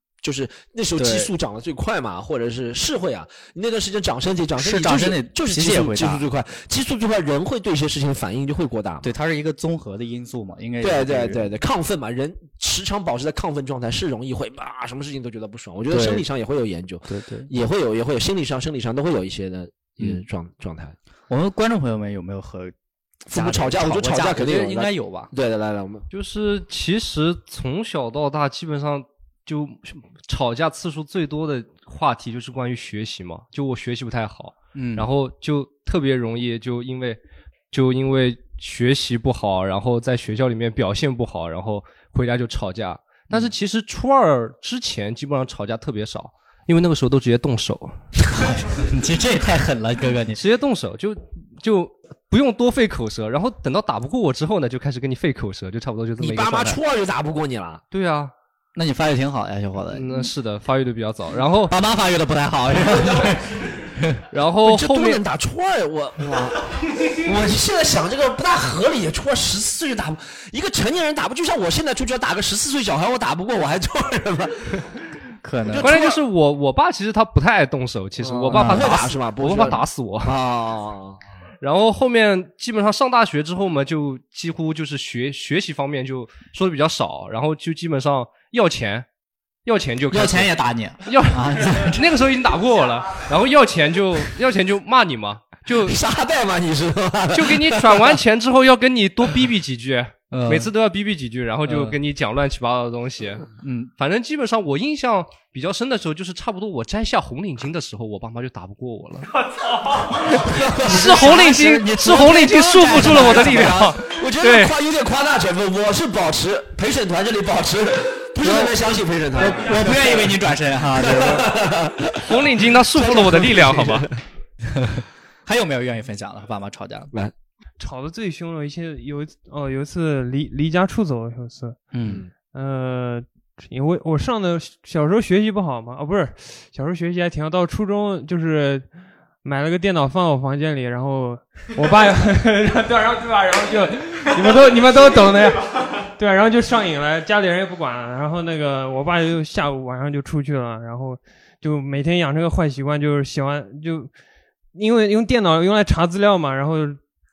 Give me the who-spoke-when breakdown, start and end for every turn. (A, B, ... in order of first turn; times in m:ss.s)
0:00.2-0:09.1 A
0:01.0-0:01.3 B
0:04.6-0:06.2 B
0:09.0-0:11.5 B
0:10.8-0:21.0 A
0:15.9-0:16.2 B
0:17.1-0:17.5 B
0:21.3-0:22.7 B
0:23.3-0:26.0 A
0:23.3-0:25.3 B
0:26.1-0:37.2 C
0:34.7-0:35.1 B
0:37.7-0:48.0 C
0:48.3-0:50.4 B
0:50.3-0:56.8 C
0:56.2-0:57.8 A
0:57.9-0:58.3 C
0:58.8-1:00.3 B
0:59.9-1:01.7 C
1:01.7-1:04.2 B
1:02.8-1:03.4 A
1:04.3-1:05.2 C
1:04.6-1:14.8 A
1:15.4-1:16.0 B
1:15.7-1:16.2 A
1:15.8-1:20.4 C
1:18.2-1:21.2 A
1:18.5-1:18.9 B
1:21.6-1:29.1 C
1:29.6-1:36.0 C
1:30.1-1:32.1 B
1:35.8-1:38.2 A
1:37.3-1:49.3 C
1:40.3-1:40.7 B
1:41.6-1:42.0 B
1:43.6-1:43.9 B
1:50.3-1:51.2 A
1:50.8-1:54.0 B
1:50.8-1:54.7 C
1:54.0-2:00.3 A
1:58.4-1:58.7 B
1:59.4-2:01.5 B
2:00.9-2:04.1 A
2:02.2-2:04.1 C
2:04.7-2:07.1 B
2:07.8-2:11.8 D
2:11.9-2:12.2 B
2:12.0-2:12.3 A
2:12.5-2:18.9 D
2:19.4-2:34.1 D
2:34.7-2:37.0 D